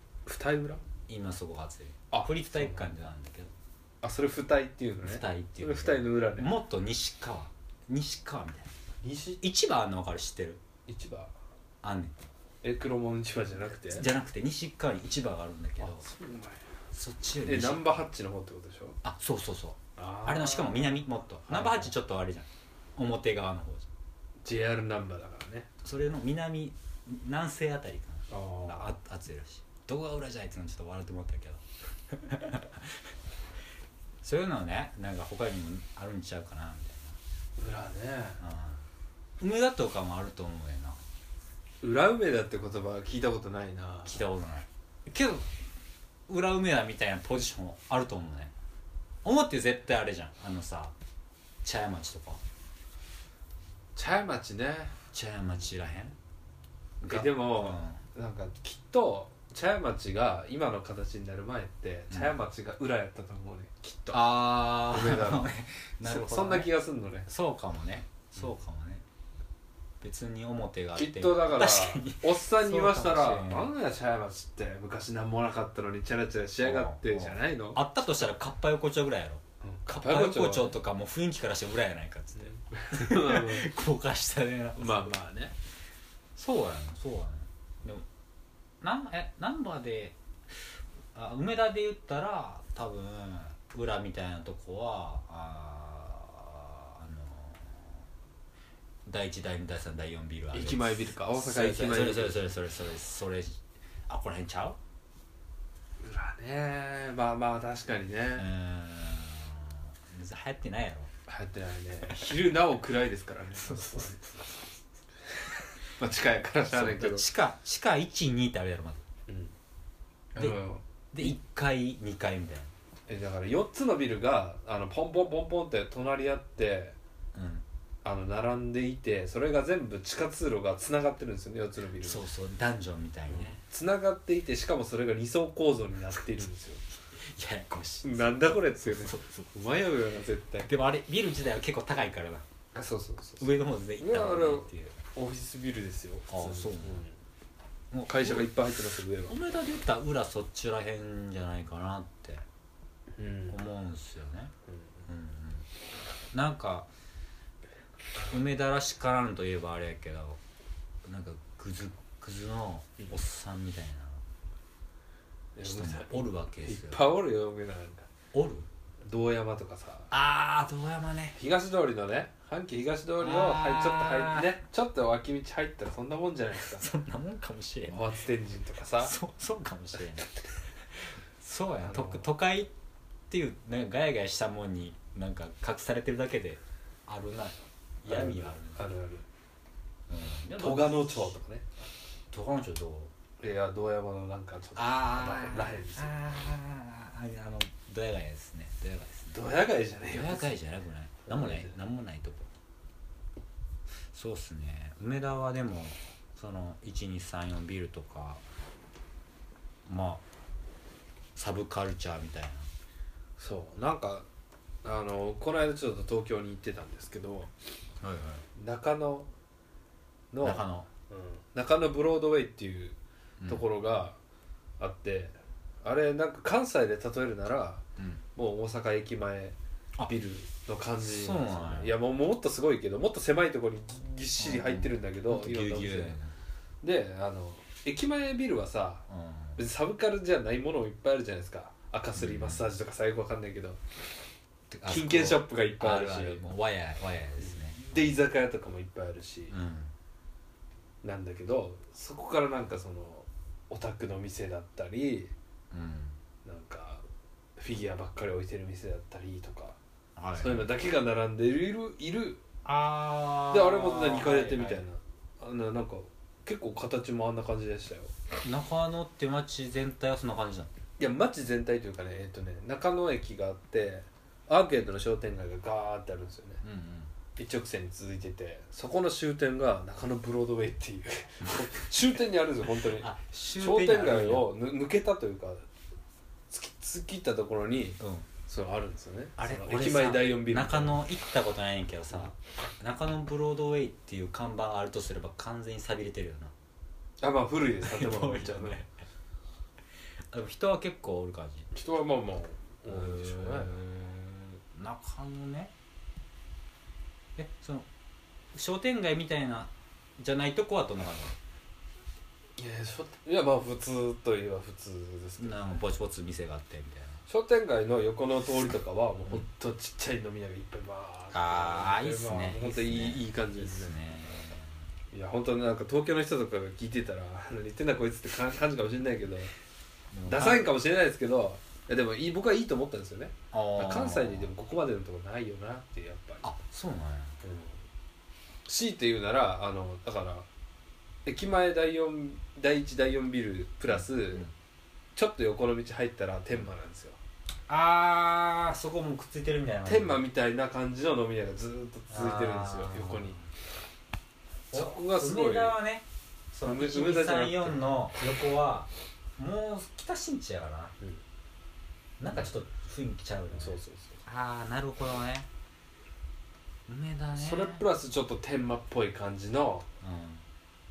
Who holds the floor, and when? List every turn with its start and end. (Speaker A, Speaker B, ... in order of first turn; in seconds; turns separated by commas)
Speaker A: 0.3-0.8, Speaker B: 1.1-3.5, Speaker A: 2.1-2.9, Speaker A: 4.0-6.5, Speaker B: 5.0-8.7, Speaker A: 9.0-9.4, Speaker B: 9.4-10.6, Speaker A: 10.9-11.3, Speaker B: 11.8-12.1, Speaker A: 12.6-14.1, Speaker B: 13.8-16.0, Speaker A: 15.8-16.6, Speaker B: 16.9-18.0, Speaker A: 17.4-19.0, Speaker B: 19.0-23.9, Speaker A: 20.0-21.9, Speaker A: 24.4-25.7, Speaker B: 25.8-33.1, Speaker A: 28.3-29.0, Speaker B: 34.2-37.2, Speaker A: 37.6-38.4, Speaker B: 38.4-38.8, Speaker B: 39.4-41.0, Speaker A: 41.8-44.2, Speaker B: 44.1-45.5, Speaker B: 46.3-48.5, Speaker B: 49.2-51.0, Speaker B: 51.6-52.4, Speaker A: 54.0-54.9, Speaker B: 55.1-56.2, Speaker B: 57.0-58.0, Speaker A: 57.0-65.5, Speaker B: 64.1-66.7, Speaker A: 66.0-67.3, Speaker B: 67.3-69.0, Speaker B: 70.0-73.7, Speaker A: 71.0-77.8, Speaker B: 76.6-85.1, Speaker A: 79.6-80.8, Speaker A: 82.4-83.7, Speaker A: 84.8-85.5, Speaker B: 86.4-88.0, Speaker B: 88.8-90.2, Speaker B: 91.1-98.0, Speaker B: 99.1-104.8, Speaker A: 100.5-102.5, Speaker A: 106.0-108.5, Speaker B: 108.4-111.1, Speaker A: 111.3-114.2, Speaker B: 113.6-114.4, Speaker A: 116.0-117.2, Speaker B: 116.7-119.0, Speaker A: 119.3-119.5, Speaker A: 120.3-120.8, Speaker B: 121.1-122.7, Speaker A: 123.1-127.0, Speaker B: 127.3-127.7, Speaker A: 128.0-132.2, Speaker B: 132.0-133.6, Speaker A: 133.3-136.8, Speaker B: 137.2-139.6, Speaker A: 138.0-140.7, Speaker B: 140.7-142.4, Speaker A: 142.7-147.2, Speaker B: 143.4-145.0, Speaker B: 146.3-147.1, Speaker B: 147.9-148.6, Speaker A: 148.1-149.4, Speaker B: 149.2-152.4, Speaker A: 153.2-153.6, Speaker B: 153.5-154.5, Speaker A: 154.7-155.0, Speaker B: 155.1-155.7, Speaker B: 156.3-156.9, Speaker B: 158.3-160.4, Speaker B: 161.1-164.2, Speaker A: 165.6-168.1, Speaker B: 165.6-167.1, Speaker B: 168.3-168.7, Speaker A: 169.1-170.1, Speaker B: 170.1-171.4, Speaker A: 171.4-176.9, Speaker B: 173.2-174.6, Speaker B: 176.6-178.0, Speaker A: 177.9-179.1, Speaker B: 179.0-180.3, Speaker B: 181.4-182.7, Speaker A: 181.8-182.3, Speaker B: 183.3-188.9, Speaker A: 188.1-189.2, Speaker B: 190.1-191.4, Speaker A: 190.6-191.6, Speaker B: 192.3-193.1, Speaker A: 193.4-196.2, Speaker B: 194.8-199.4, Speaker A: 199.3-200.6, Speaker B: 200.1-202.5, Speaker A: 201.2-201.8, Speaker B: 204.1-208.4, Speaker B: 209.9-210.2, Speaker B: 211.3-212.7, Speaker A: 213.4-214.2, Speaker A: 214.8-217.5, Speaker B: 218.0-218.4, Speaker A: 218.6-219.3, Speaker A: 220.3-224.2, Speaker B: 220.4-220.9, Speaker B: 223.4-223.7, Speaker A: 224.8-227.8, Speaker B: 228.0-228.2, Speaker A: 228.3-236.2, Speaker B: 231.0-231.9, Speaker B: 234.4-236.3, Speaker A: 236.8-239.0, Speaker B: 239.1-239.6, Speaker A: 239.6-243.8, Speaker B: 242.2-242.6, Speaker B: 244.7-248.1, Speaker A: 244.9-246.4, Speaker A: 247.4-249.6, Speaker B: 249.5-249.9, Speaker A: 251.0-255.3, Speaker B: 255.7-256.2, Speaker A: 256.4-257.0, Speaker A: 257.6-259.8, Speaker B: 260.2-260.7, Speaker A: 260.4-262.4, Speaker B: 262.6-264.8, Speaker A: 263.5-268.1, Speaker B: 268.4-270.7, Speaker A: 271.0-276.6, Speaker B: 276.6-277.1, Speaker A: 277.4-285.6, Speaker B: 282.8-284.5, Speaker A: 286.5-291.0, Speaker B: 288.0-288.3, Speaker B: 289.4-296.5, Speaker A: 297.2-298.8, Speaker B: 297.8-298.9, Speaker B: 300.3-301.7, Speaker A: 301.7-304.0, Speaker B: 302.9-304.1, Speaker B: 304.7-305.7, Speaker B: 307.4-307.9, Speaker B: 308.5-311.4, Speaker A: 312.6-315.8, Speaker B: 315.4-317.2, Speaker A: 317.3-324.0, Speaker B: 321.3-324.8, Speaker A: 325.1-329.5, Speaker B: 330.1-330.7, Speaker A: 330.3-336.4, Speaker B: 333.5-334.5, Speaker B: 336.4-337.4, Speaker A: 337.4-337.8, Speaker A: 338.7-340.4, Speaker A: 341.3-344.5, Speaker B: 343.9-344.5, Speaker A: 345.2-347.2, Speaker B: 347.7-350.2, Speaker A: 349.9-353.4, Speaker B: 352.1-353.5, Speaker A: 354.7-355.8, Speaker B: 354.7-360.9, Speaker A: 356.6-357.8, Speaker B: 362.2-365.5, Speaker A: 363.5-364.2, Speaker B: 366.9-367.8, Speaker A: 367.3-369.9, Speaker B: 370.0-370.4